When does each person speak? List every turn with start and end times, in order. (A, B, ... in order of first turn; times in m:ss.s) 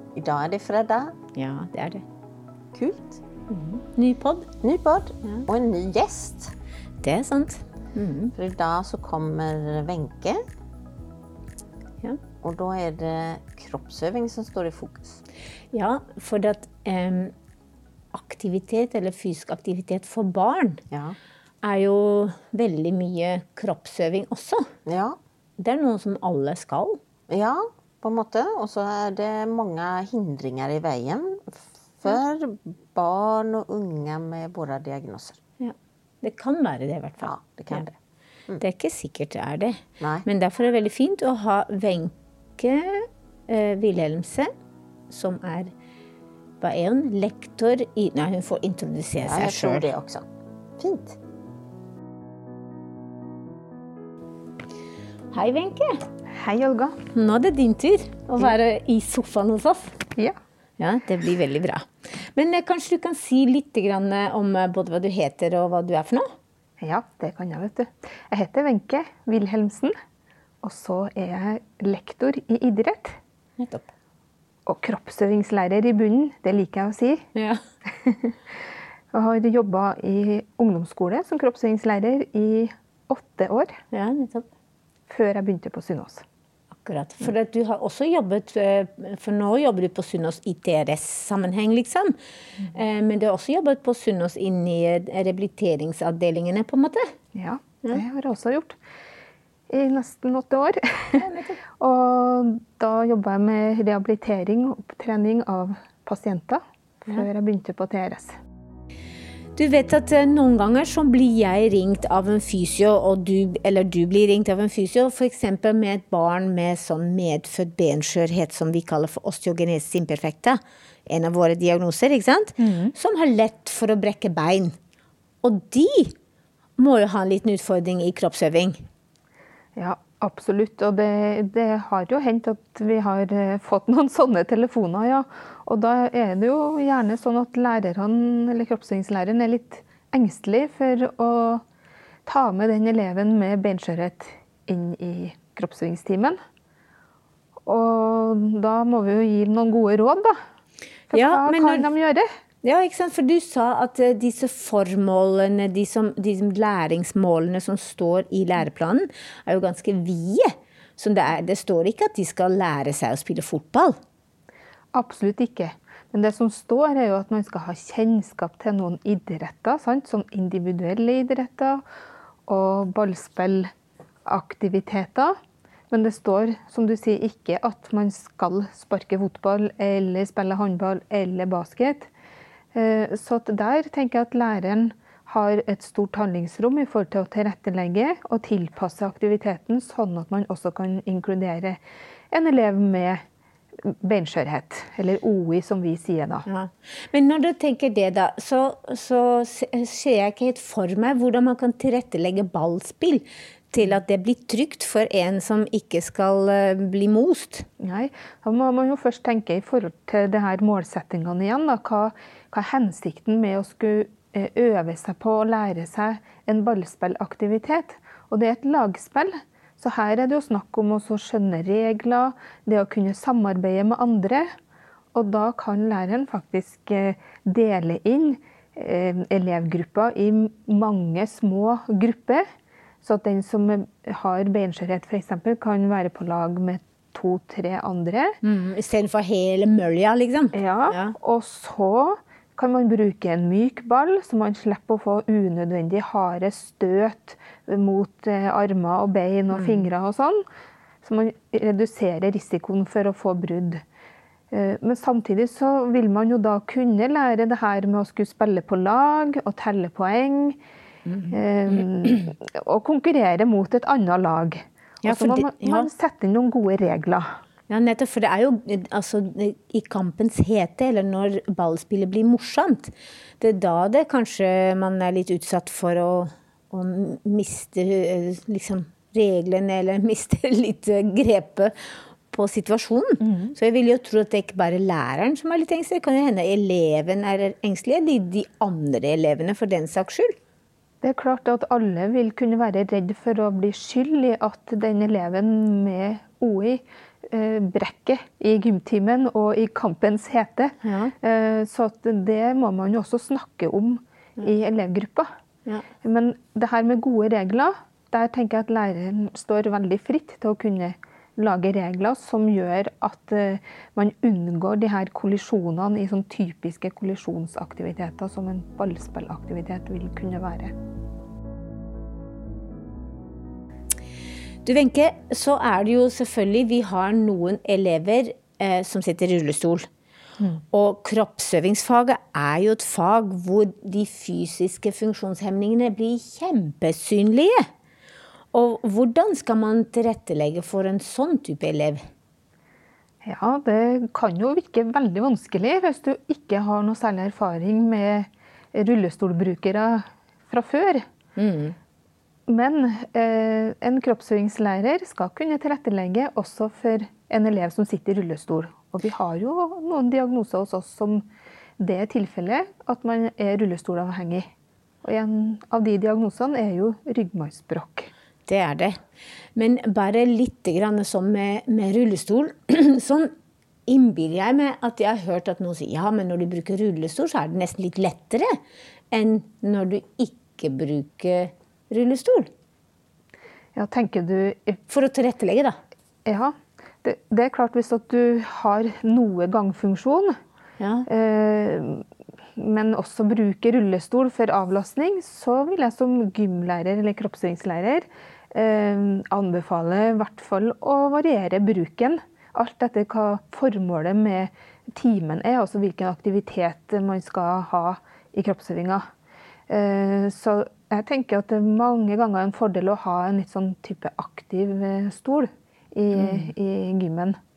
0:00.2-0:01.2 A
0:01.3-0:02.0 B
0:02.7-0:03.2 A
0:03.5-0:04.5 B
0:04.6-0:06.5 A
0:07.0-0:08.3 B
0:08.4-0:10.4 A
0:12.4-0:15.2 A
0:15.7-0:17.3 B
0:18.1-0:20.8 B
0:20.9-0:21.2 A
0:21.6-0:24.6 B
0:24.9-0:25.2 A
0:25.6-0:27.0 B
0:27.3-0:35.4 A
0:35.6-0:37.8 B
0:37.2-0:38.0 A
0:38.6-0:44.5 B
0:40.0-0:40.3 A
0:45.1-0:45.7 B
0:46.6-0:49.9 B
0:49.2-0:50.3 A
0:50.8-0:51.2 A
0:55.3-0:55.9 B
0:56.3-0:57.0 C
0:57.1-1:00.0 B
1:00.8-1:06.2 B
1:06.8-1:09.9 C
1:10.6-1:13.2 C
1:13.6-1:13.9 B
1:14.7-1:17.3 C
1:17.4-1:17.6 B
1:18.0-1:18.4 C
1:19.1-1:23.8 C
1:23.9-1:24.5 B
1:25.1-1:26.2 C
1:26.8-1:32.1 B
1:32.7-1:37.0 B
1:37.3-1:38.8 C
1:39.7-1:41.2 C
1:41.2-1:41.6 B
1:41.8-1:48.3 C
1:49.6-2:04.7 B
2:02.6-2:02.9 C
2:05.4-2:06.1 B
2:06.8-2:08.8 B
2:09.8-2:21.6 C
2:22.3-2:26.4 C
2:27.7-2:30.4 C
2:31.1-2:32.3 C
2:31.1-2:31.9 B
2:32.6-2:44.0 B
2:44.9-2:51.8 C
2:52.5-2:53.7 C
2:54.3-2:55.4 C
2:55.9-3:02.1 C
3:02.7-3:11.8 C
3:12.3-3:13.2 C
3:13.8-3:16.5 C
3:16.5-3:27.7 B
3:27.8-3:44.5 C
3:45.1-3:52.4 C
3:53.0-3:58.4 C
3:58.4-4:01.2 B
4:00.5-4:10.4 C
4:09.5-4:09.9 B
4:11.0-4:13.8 C
4:14.5-4:20.6 C
4:21.1-4:21.8 B
4:21.3-4:27.4 C
4:25.0-4:25.9 B
4:27.7-4:41.7 B
4:42.3-4:50.3 B
4:43.2-4:43.5 C
4:51.0-5:05.3 C
5:00.8-5:01.1 B
5:06.0-5:20.7 C
5:24.6-5:29.9 B
5:30.7-5:37.6 B
5:38.5-5:42.0 B
5:43.2-5:51.0 C
5:51.4-5:51.8 B
5:52.5-6:01.2 C
6:01.8-6:04.5 C
6:05.0-6:08.1 C
6:08.5-6:09.0 B
6:09.6-6:13.3 B
6:13.9-6:18.5 B
6:19.1-6:22.5 B
6:23.8-6:24.8 C
6:24.9-6:25.8 B
6:26.3-6:30.4 C
6:30.8-6:31.1 B
6:31.1-6:32.0 C
6:32.6-6:49.1 C
6:49.7-6:57.4 C
6:56.1-6:56.5 B